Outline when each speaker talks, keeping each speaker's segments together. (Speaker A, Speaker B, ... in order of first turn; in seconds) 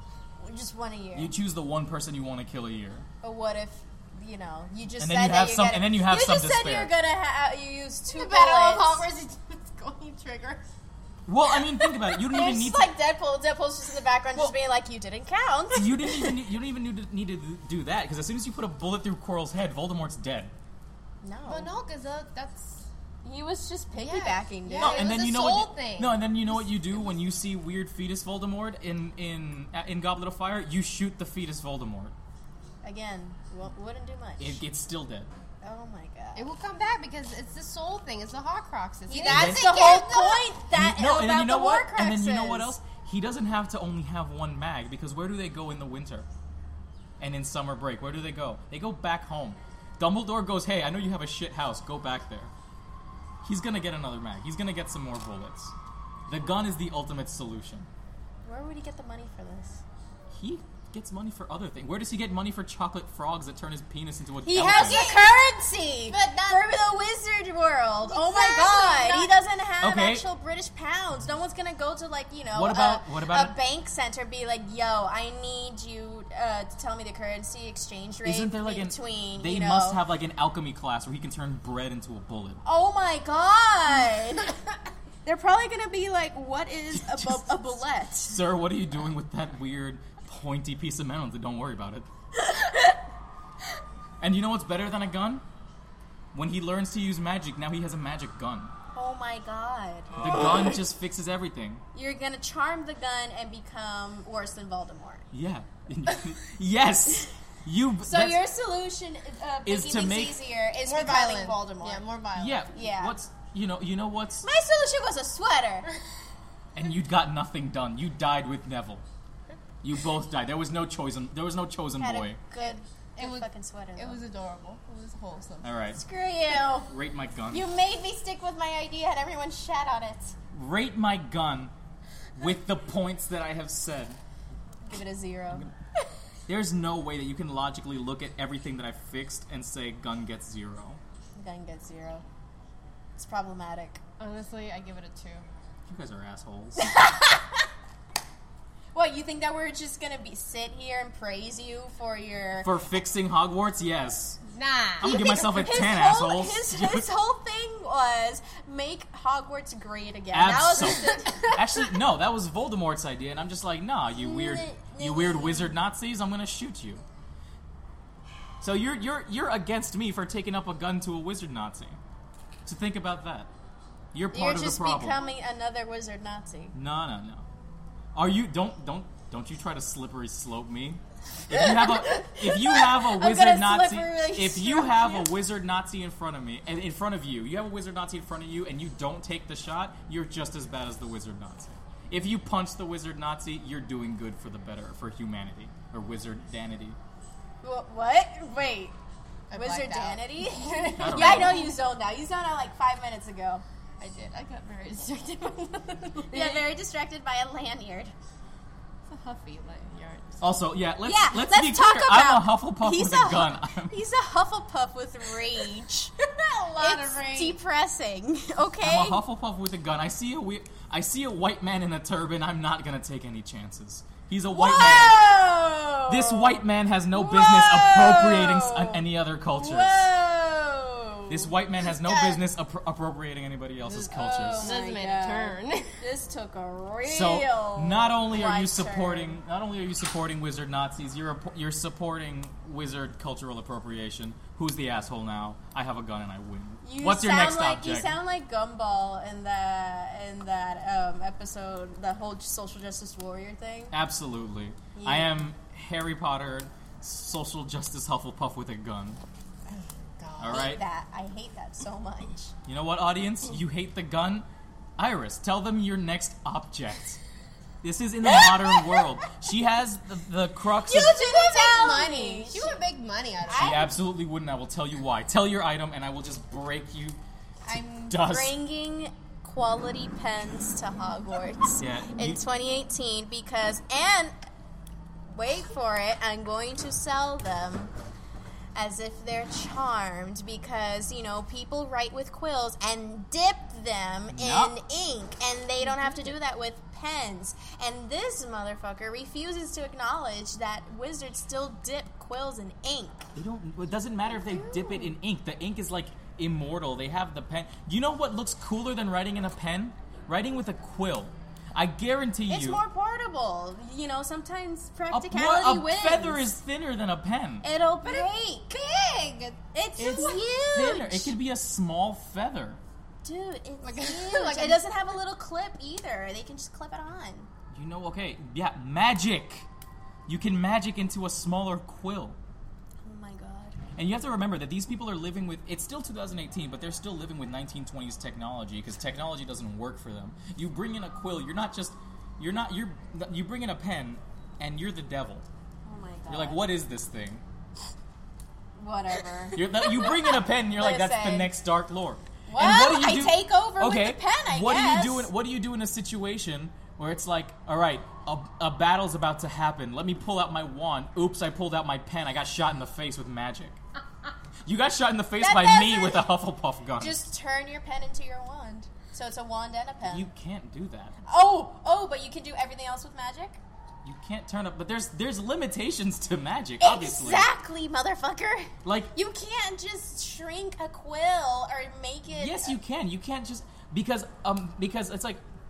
Speaker A: 0.4-1.3, 3.2-9.1, 11.8-16.4, 21.2-21.7, 23.2-25.2, 32.8-34.6, 35.6-36.5, 39.1-42.7, 58.4-59.8, 64.4-80.0, 82.6-84.5, 85.2-88.4, 92.3-93.0, 98.9-100.2, 101.9-105.3, 108.0-112.1, 112.7-113.2, 114.4-115.9, 122.0-124.2, 125.9-126.9, 127.5-130.3, 134.8-135.7, 141.3-142.2, 143.2-144.0, 146.8-147.7, 148.9-152.7, 155.0-161.9, 164.1-165.8, 174.3-176.7, 181.5-185.3, 197.6-198.9, 199.5-203.6, 206.3-208.1, 211.0-216.1, 216.8-219.2, 224.5-232.4, 234.0-239.4, 246.8-253.9, 254.9-255.4, 260.5-262.5, 270.9-272.8, 273.4-273.9, 277.7-284.3, 285.2-287.9, 288.7-303.3, 304.3-305.1, 312.5-316.5, 317.6-318.7, 319.7-321.3, 323.2-327.5, 333.0-333.8, 345.8-346.6, 348.8-351.5, 352.5-355.3, 365.4-366.3, 367.0-370.3, 371.2-373.6, 376.8-382.8
Speaker B: 1.1-3.1, 5.0-6.9, 11.3-12.9, 15.7-20.5, 24.8-32.1, 34.4-35.3, 39.2-39.7, 40.7-46.3, 47.2-52.5, 53.4-55.7, 56.3-57.9, 60.3-65.0, 69.8-70.2, 72.5-73.6, 78.2-82.6, 86.9-92.1, 94.2-95.4, 96.3-98.7, 100.2-101.8, 105.3-108.4, 109.6-110.4, 112.3-114.5, 116.7-119.0, 119.8-122.4, 125.6-126.0, 126.8-127.7, 130.5-131.7, 132.3-134.2, 136.5-141.0, 145.9-146.9, 152.6-154.4, 155.0-157.1, 160.3-167.0, 168.6-172.0, 172.7-173.5, 174.1-175.2, 176.7-177.5, 178.1-197.0, 200.9-201.7, 210.4-214.0, 218.8-225.2, 226.1-230.1, 231.3-234.7, 237.1-248.2, 253.9-259.2, 260.4-260.8, 262.6-264.4, 265.0-267.2, 267.8-271.2, 273.5-277.2, 277.7-278.6, 281.8-282.4, 294.3-294.8, 303.3-312.8, 315.1-317.6, 320.0-322.8, 327.7-329.7, 330.3-332.4, 333.9-345.4, 346.3-347.4, 349.5-363.8, 364.6-367.2, 370.0-371.1, 374.0-377.5, 378.8-379.1, 382.3-385.4
Speaker C: 8.1-10.6, 21.4-22.9, 24.0-26.3, 36.3-40.5, 64.5-65.4, 66.1-66.8, 68.0-69.3, 110.8-112.7, 123.2-125.7, 144.2-145.4, 154.5-155.1, 199.5-201.8, 204.0-206.7, 209.1-210.5, 216.2-217.6, 233.9-236.0, 259.7-260.7, 270.9-273.9, 295.8-296.3, 318.0-319.6, 323.8-324.8